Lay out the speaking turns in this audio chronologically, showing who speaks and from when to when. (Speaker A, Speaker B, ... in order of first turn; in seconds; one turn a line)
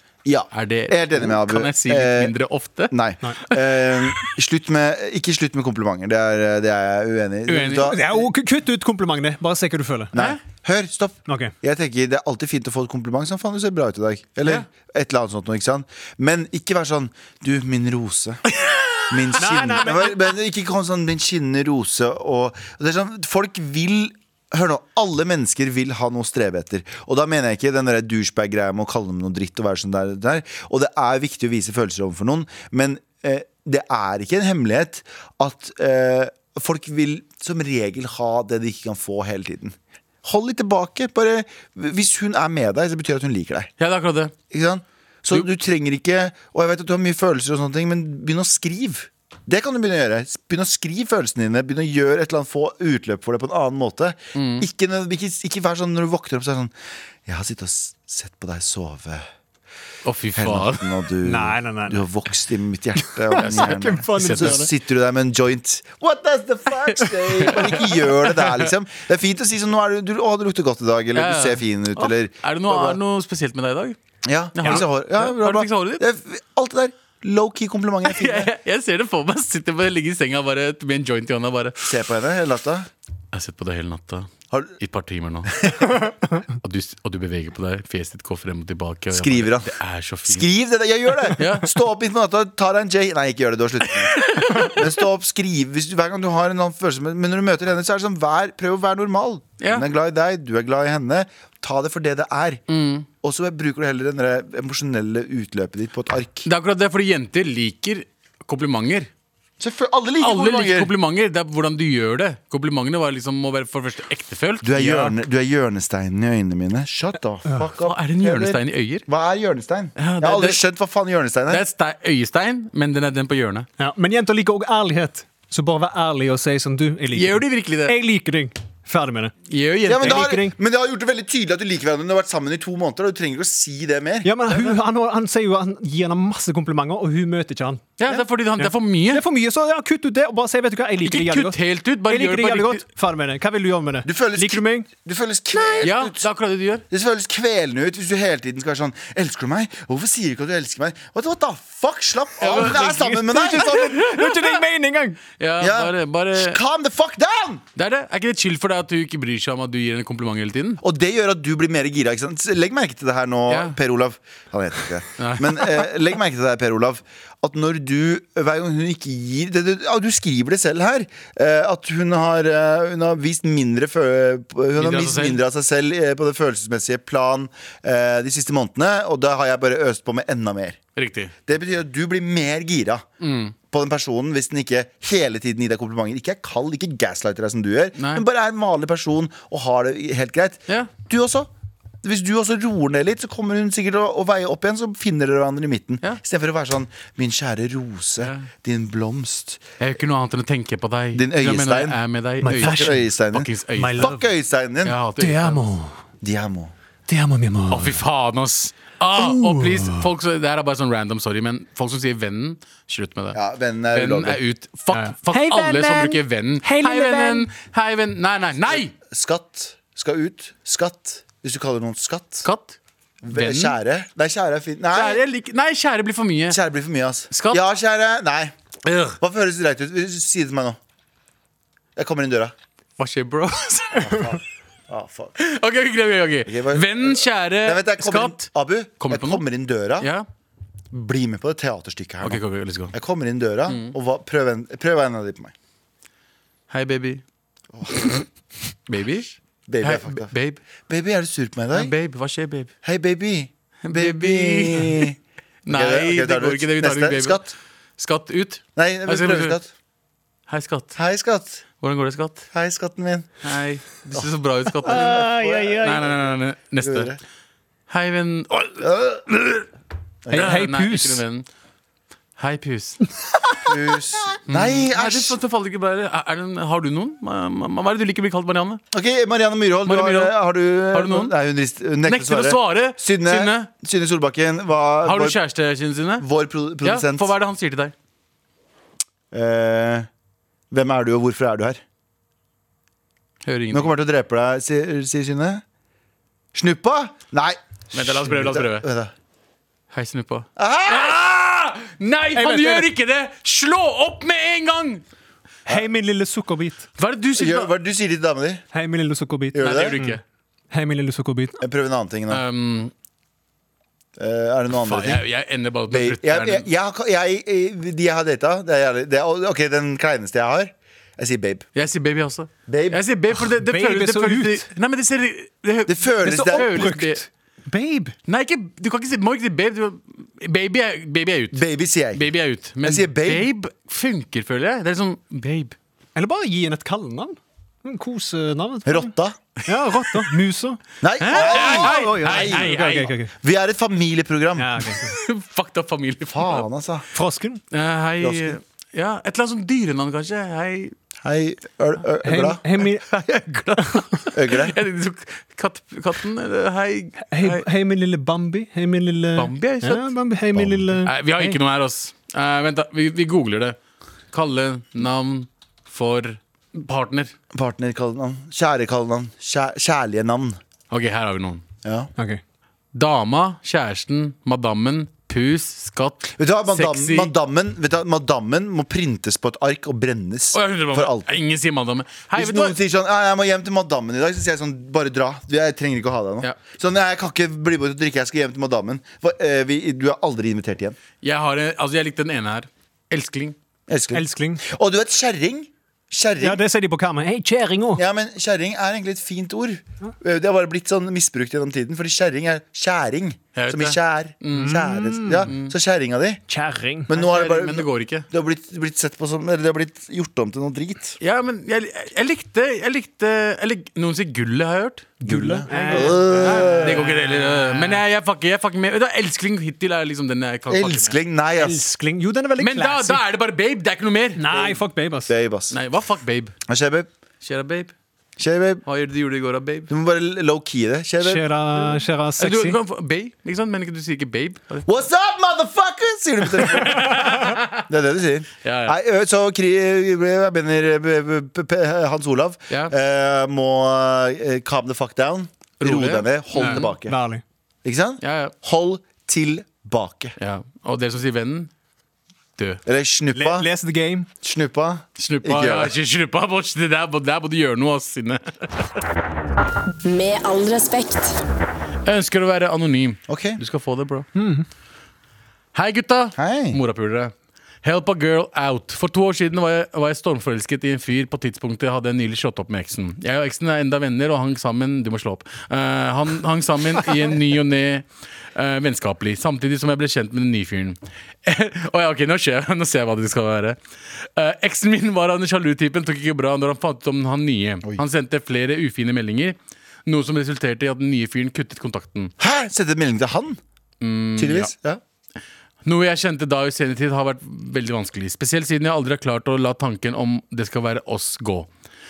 Speaker A: 0.2-2.3
Speaker B: 0.5-3.0
Speaker A: 2.9-8.3
Speaker B: 3.5-4.4
Speaker B: 7.5-7.9
Speaker C: 7.9-10.1
Speaker A: 10.1-18.4
Speaker C: 11.3-11.5
Speaker A: 19.1-43.7
Speaker C: 19.4-20.2
Speaker B: 43.8-44.3
Speaker A: 44.5-56.7
Speaker B: 54.4-54.7
Speaker A: 57.2-59.3
Speaker B: 60.0-60.9
Speaker A: 60.4-73.0
Speaker C: 61.2-62.0
Speaker C: 63.0-64.7
Speaker B: 63.4-64.6
Speaker B: 66.9-68.7
Speaker B: 71.1-74.0
Speaker A: 74.2-78.5
Speaker B: 74.5-76.0
Speaker B: 78.0-81.8
Speaker A: 81.8-82.9
Speaker B: 83.3-90.5
Speaker A: 89.1-89.7
Speaker A: 90.2-102.6
Speaker B: 91.4-91.7
Speaker B: 94.0-94.8
Speaker B: 99.6-99.9
Speaker B: 102.7-103.1
Speaker A: 103.2-106.5
Speaker B: 106.4-109.1
Speaker A: 109.6-110.9
Speaker B: 110.2-115.1
Speaker A: 114.6-121.6
Speaker B: 117.8-119.1
Speaker B: 120.0-120.6
Speaker B: 121.5-123.7
Speaker C: 123.8-129.3
Speaker B: 127.1-127.9
Speaker B: 129.5-130.3
Speaker A: 129.9-134.7
Speaker C: 130.0-130.6
Speaker C: 134.2-138.0
Speaker B: 138.0-139.2
Speaker C: 138.6-144.9
Speaker B: 141.0-142.8
Speaker A: 144.0-146.2
Speaker B: 145.8-146.8
Speaker A: 146.9-154.2
Speaker B: 152.4-154.6
Speaker C: 152.5-155.2
Speaker B: 155.4-156.6
Speaker A: 155.6-157.6
Speaker B: 157.8-160.8
Speaker A: 160.8-180.8
Speaker B: 163.5-163.8
Speaker B: 165.2-165.9
Speaker B: 174.8-175.4
Speaker B: 180.9-181.3
Speaker A: 181.5-183.0
Speaker B: 183.2-183.5
Speaker A: 183.7-191.5
Speaker B: 188.0-188.2
Speaker B: 190.7-190.9
Speaker A: 192.0-199.6
Speaker B: 198.2-198.5
Speaker B: 199.8-204.1
Speaker A: 201.1-202.0
Speaker C: 202.4-203.1
Speaker A: 202.5-205.0
Speaker C: 203.7-204.2
Speaker B: 204.8-205.6
Speaker C: 205.2-206.0
Speaker A: 206.2-206.7
Speaker C: 207.1-208.0
Speaker B: 207.7-213.4
Speaker C: 209.1-210.1
Speaker A: 213.3-214.4
Speaker B: 213.9-218.9
Speaker C: 214.9-217.5
Speaker A: 218.7-222.5
Speaker B: 222.4-222.8
Speaker A: 223.2-225.2
Speaker B: 223.3-223.8
Speaker B: 224.9-226.6
Speaker A: 226.5-228.5
Speaker B: 227.3-227.6
Speaker B: 228.8-229.2
Speaker A: 229.2-230.8
Speaker A: 232.0-232.5
Speaker B: 233.0-234.4
Speaker A: 234.0-235.4
Speaker B: 235.4-239.4
Speaker A: 236.5-240.1
Speaker B: 240.0-240.2
Speaker A: 240.9-242.4
Speaker B: 242.2-242.9
Speaker A: 242.9-245.5
Speaker B: 243.7-243.9
Speaker B: 246.7-247.2
Speaker A: 247.7-248.2
Speaker B: 248.9-250.6
Speaker A: 249.7-250.3
Speaker A: 250.9-251.9
Speaker B: 251.7-252.7
Speaker A: 252.8-255.2
Speaker B: 253.8-255.1
Speaker B: 255.6-259.6
Speaker A: 255.7-257.5
Speaker A: 258.8-259.7
Speaker B: 260.5-261.0
Speaker A: 261.0-261.6
Speaker B: 261.8-262.5
Speaker A: 262.5-263.4
Speaker B: 263.4-265.2
Speaker A: 264.8-267.2
Speaker C: 264.9-266.0
Speaker B: 265.8-267.1
Speaker B: 267.9-269.6
Speaker A: 268.8-269.2
Speaker A: 270.2-270.6
Speaker C: 270.3-271.2
Speaker B: 270.3-271.5
Speaker B: 272.4-273.0
Speaker A: 273.6-275.4
Speaker B: 274.5-278.8
Speaker A: 278.9-285.4
Speaker B: 279.9-280.4
Speaker B: 280.9-281.3
Speaker B: 282.0-283.7
Speaker B: 285.0-286.3
Speaker A: 286.2-287.3
Speaker B: 286.8-287.9
Speaker A: 289.3-290.1
Speaker A: 290.7-291.8
Speaker B: 293.4-293.9
Speaker A: 293.7-295.6
Speaker A: 296.5-299.1
Speaker B: 297.9-298.9
Speaker B: 299.9-305.0
Speaker A: 300.6-301.2
Speaker C: 302.3-302.9
Speaker C: 305.7-306.9
Speaker B: 307.0-307.7
Speaker A: 307.4-308.6
Speaker C: 308.7-310.2
Speaker A: 309.5-310.0
Speaker B: 309.6-310.2
Speaker C: 310.7-311.6
Speaker A: 311.6-312.4
Speaker B: 312.3-312.9
Speaker A: 314.2-315.2
Speaker B: 314.7-316.7
Speaker A: 315.9-321.6
Speaker B: 321.8-327.2
Speaker A: 322.7-323.0
Speaker C: 323.4-324.7
Speaker A: 325.9-327.0
Speaker C: 326.2-328.1
Speaker B: 328.3-335.8
Speaker A: 331.5-332.3
Speaker A: 332.8-333.5
Speaker C: 336.1-339.1
Speaker A: 338.9-339.4
Speaker C: 339.6-343.3
Speaker A: 341.0-342.8
Speaker B: 341.2-343.1
Speaker A: 343.3-344.9
Speaker C: 344.6-345.1
Speaker B: 344.9-346.7
Speaker A: 346.3-347.1
Speaker C: 347.1-347.6
Speaker B: 347.7-350.9
Speaker A: 348.2-348.6
Speaker A: 351.2-352.6
Speaker C: 352.2-353.1
Speaker B: 353.0-357.6
Speaker C: 353.8-354.0
Speaker A: 354.3-354.8
Speaker C: 357.3-361.6
Speaker B: 359.4-360.1
Speaker B: 361.0-363.8
Speaker B: 364.3-367.3
Speaker A: 367.5-370.6
Speaker B: 370.9-371.6
Speaker A: 371.8-372.1
Speaker B: 372.9-377.3
Speaker A: 376.4-381.3
Speaker B: 380.5-382.8
Speaker A: 382.4-391.0
Speaker B: 391.2-393.6
Speaker A: 393.9-396.6
Speaker C: 394.1-394.6
Speaker C: 396.4-398.0
Speaker A: 397.9-406.4
Speaker B: 403.5-404.8
Speaker C: 404.5-405.5
Speaker B: 405.4-405.7
Speaker C: 406.5-407.1
Speaker A: 407.1-411.2
Speaker B: 407.1-408.3
Speaker B: 411.2-421.1
Speaker C: 415.2-418.0
Speaker A: 415.2-417.1
Speaker A: 420.7-421.8
Speaker C: 421.6-423.2
Speaker B: 422.6-424.4
Speaker C: 424.4-425.3
Speaker A: 424.5-425.8
Speaker B: 425.7-426.6
Speaker A: 426.7-427.1
Speaker B: 427.4-427.9
Speaker A: 428.4-428.8
Speaker B: 428.9-429.9
Speaker A: 429.9-431.5
Speaker C: 431.2-432.8
Speaker B: 432.4-434.9
Speaker A: 434.9-447.1
Speaker B: 436.5-437.9
Speaker B: 438.6-439.0
Speaker B: 445.8-446.9
Speaker C: 446.5-447.4
Speaker A: 447.8-450.4
Speaker B: 448.2-448.5
Speaker B: 450.4-451.7
Speaker B: 452.6-452.8
Speaker A: 452.9-453.7
Speaker C: 453.3-454.3
Speaker A: 454.4-455.9
Speaker B: 455.2-459.0
Speaker B: 462.0-464.3
Speaker A: 463.3-463.6
Speaker C: 464.4-464.6
Speaker B: 465.7-467.3
Speaker A: 466.4-466.8
Speaker B: 467.8-492.3
Speaker A: 492.4-493.6
Speaker B: 494.0-494.7
Speaker A: 494.4-495.0
Speaker B: 495.9-501.7